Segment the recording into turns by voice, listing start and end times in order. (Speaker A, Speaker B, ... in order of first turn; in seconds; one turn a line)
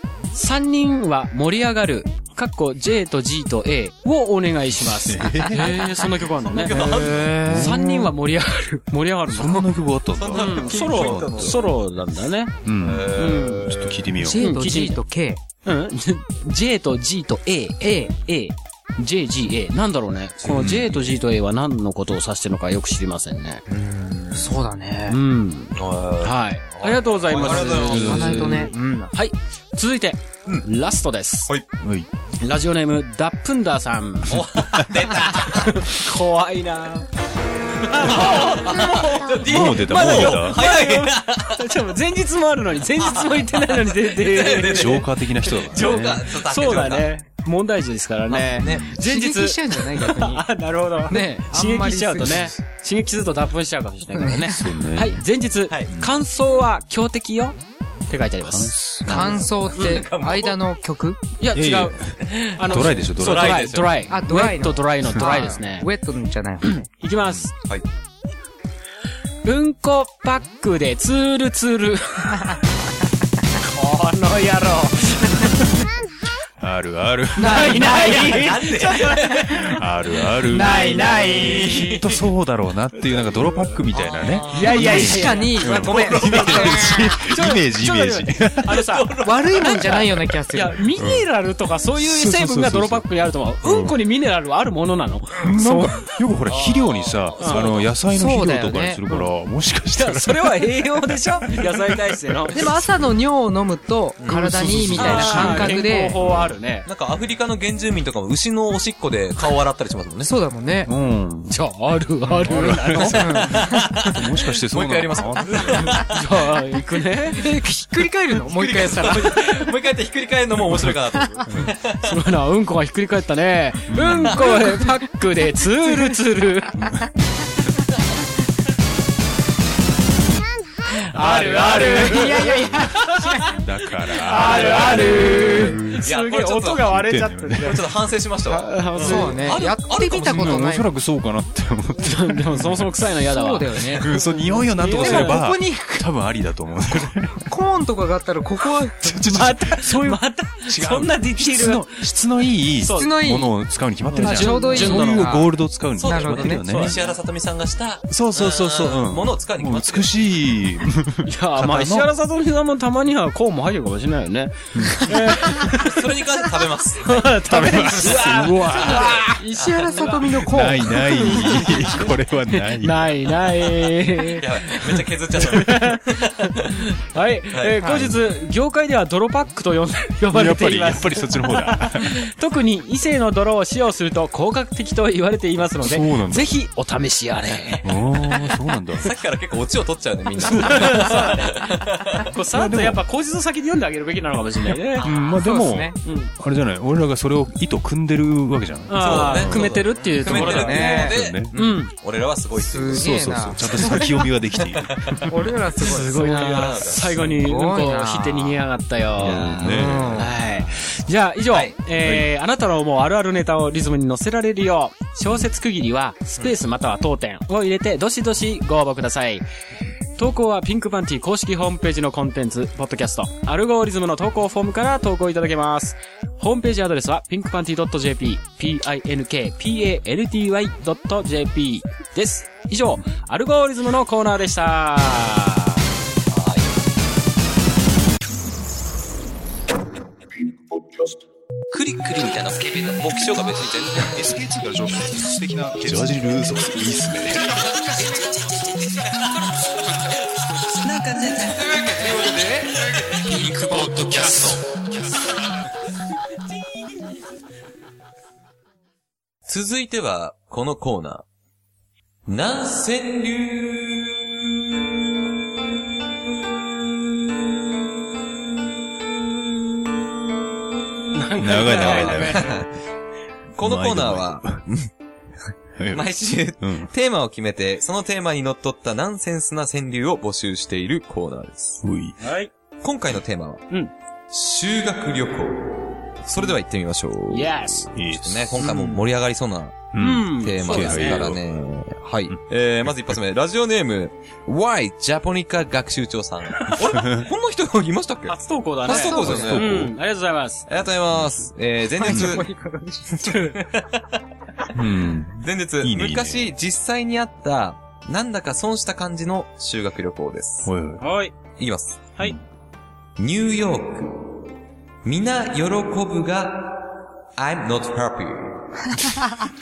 Speaker A: 0.3-9.7
Speaker B: 4.7-5.7
Speaker C: 6.4-7.4
Speaker D: 6.8-8.1
Speaker B: 7.4-7.8
Speaker B: 9.3-11.7
Speaker C: 10.2-11.7
Speaker A: 10.3-12.6
Speaker B: 12.6-14.4
Speaker C: 12.8-14.1
Speaker A: 13.2-13.6
Speaker D: 14.2-15.4
Speaker A: 14.4-15.0
Speaker A: 15.7-23.6
Speaker D: 17.8-18.1
Speaker C: 20.4-21.1
Speaker B: 20.5-20.8
Speaker C: 23.7-24.5
Speaker D: 24.4-25.2
Speaker A: 25.1-31.5
Speaker C: 25.7-28.4
Speaker B: 27.3-28.7
Speaker D: 27.9-29.1
Speaker B: 31.8-32.1
Speaker A: 32.4-34.4
Speaker C: 34.3-35.8
Speaker A: 35.4-37.1
Speaker A: 37.8-45.0
Speaker C: 38.0-41.6
Speaker B: 39.4-40.6
Speaker C: 43.0-47.1
Speaker B: 44.5-46.3
Speaker A: 46.3-57.6
Speaker C: 48.3-48.9
Speaker B: 48.6-49.0
Speaker D: 49.0-50.5
Speaker D: 51.1-52.5
Speaker D: 54.1-54.7
Speaker B: 54.5-55.2
Speaker A: 58.1-58.8
Speaker B: 58.4-59.4
Speaker C: 59.1-60.6
Speaker D: 59.1-61.2
Speaker A: 61.4-65.9
Speaker B: 61.5-63.7
Speaker C: 62.2-64.1
Speaker D: 64.1-66.9
Speaker A: 66.8-67.5
Speaker C: 67.5-67.8
Speaker A: 69.4-72.5
Speaker A: 73.7-75.7
Speaker B: 76.6-78.1
Speaker D: 77.4-78.5
Speaker A: 77.4-79.1
Speaker C: 78.2-79.7
Speaker B: 79.5-88.8
Speaker A: 80.5-82.0
Speaker D: 80.6-81.7
Speaker C: 81.3-82.2
Speaker C: 83.9-86.9
Speaker A: 84.5-96.0
Speaker D: 84.6-87.1
Speaker C: 88.7-89.9
Speaker D: 89.2-90.9
Speaker B: 91.0-91.3
Speaker B: 92.0-93.1
Speaker B: 93.6-94.0
Speaker B: 95.4-102.5
Speaker D: 95.6-95.9
Speaker C: 96.5-97.9
Speaker A: 97.4-97.9
Speaker D: 98.1-99.0
Speaker A: 99.9-102.6
Speaker D: 102.5-106.2
Speaker B: 104.3-106.5
Speaker A: 105.0-106.9
Speaker C: 106.8-110.3
Speaker D: 110.2-110.9
Speaker B: 110.8-111.5
Speaker A: 111.5-113.5
Speaker D: 112.3-113.9
Speaker B: 112.4-116.1
Speaker C: 113.5-116.2
Speaker A: 116.1-117.5
Speaker D: 117.3-119.6
Speaker C: 118.5-122.2
Speaker A: 122.0-126.9
Speaker B: 123.9-124.5
Speaker D: 124.4-124.9
Speaker A: 131.1-133.3
Speaker B: 131.3-132.9
Speaker C: 131.6-132.0
Speaker D: 131.7-133.5
Speaker B: 133.5-136.1
Speaker A: 134.2-137.8
Speaker C: 136.0-136.9
Speaker B: 136.8-137.9
Speaker C: 137.6-140.7
Speaker A: 138.5-139.5
Speaker D: 138.9-140.9
Speaker B: 140.3-142.9
Speaker A: 142.0-144.0
Speaker D: 143.2-146.1
Speaker B: 143.8-147.5
Speaker A: 144.8-145.4
Speaker D: 147.4-149.2
Speaker B: 149.0-157.0
Speaker A: 149.2-152.0
Speaker A: 152.8-153.2
Speaker D: 152.8-153.5
Speaker A: 154.1-155.4
Speaker D: 154.2-156.7
Speaker C: 155.9-160.1
Speaker A: 156.7-157.1
Speaker B: 158.1-162.1
Speaker A: 161.2-166.0
Speaker B: 164.7-165.1
Speaker C: 165.8-167.3
Speaker A: 167.0-169.4
Speaker B: 167.4-169.2
Speaker D: 168.7-171.6
Speaker C: 169.6-170.2
Speaker B: 170.4-173.3
Speaker A: 171.2-171.8
Speaker A: 172.5-174.8
Speaker C: 174.3-177.0
Speaker A: 175.4-187.9
Speaker B: 177.8-178.2
Speaker B: 180.3-182.2
Speaker B: 185.8-186.6
Speaker B: 187.8-189.1
Speaker C: 189.0-192.3
Speaker A: 190.4-191.5
Speaker B: 190.4-191.1
Speaker A: 192.3-195.1
Speaker B: 192.5-193.0
Speaker B: 195.0-201.5
Speaker D: 195.4-196.0
Speaker A: 196.0-196.3
Speaker A: 198.9-201.9
Speaker C: 199.0-204.0
Speaker D: 200.2-201.1
Speaker D: 202.6-204.3
Speaker B: 202.9-205.5
Speaker C: 204.6-205.3
Speaker D: 205.3-206.7
Speaker A: 205.8-219.4
Speaker C: 206.3-207.3
Speaker D: 207.3-208.6
Speaker B: 209.2-210.4
Speaker C: 209.2-210.1
Speaker D: 209.6-210.3
Speaker C: 211.5-211.8
Speaker B: 212.0-212.3
Speaker A: 220.2-235.8
Speaker C: 236.3-236.8
Speaker C: 241.7-244.3
Speaker B: 244.0-247.6
Speaker C: 250.7-254.6
Speaker C: 259.5-261.2
Speaker C: 262.3-264.9
Speaker A: 271.1-272.5
Speaker B: 271.4-272.6
Speaker C: 271.5-272.7
Speaker C: 273.6-274.9
Speaker B: 273.6-274.6
Speaker B: 275.8-276.9
Speaker C: 275.9-281.8
Speaker B: 281.8-282.2
Speaker A: 282.2-282.5
Speaker C: 282.8-283.7
Speaker C: 284.3-299.9
Speaker A: 287.3-287.9
Speaker B: 287.9-288.7
Speaker A: 288.6-289.0
Speaker B: 289.9-291.4
Speaker A: 290.0-291.3
Speaker B: 296.9-297.3
Speaker A: 298.3-300.6
Speaker D: 298.9-299.6
Speaker B: 299.1-299.9
Speaker C: 300.7-302.5
Speaker B: 301.1-301.5
Speaker D: 302.0-303.5
Speaker B: 302.1-302.4
Speaker C: 303.2-304.0
Speaker B: 304.7-306.5
Speaker C: 305.4-310.7
Speaker B: 310.6-311.0
Speaker A: 311.0-311.3
Speaker C: 311.6-312.1
Speaker C: 313.2-314.4
Speaker C: 315.0-318.9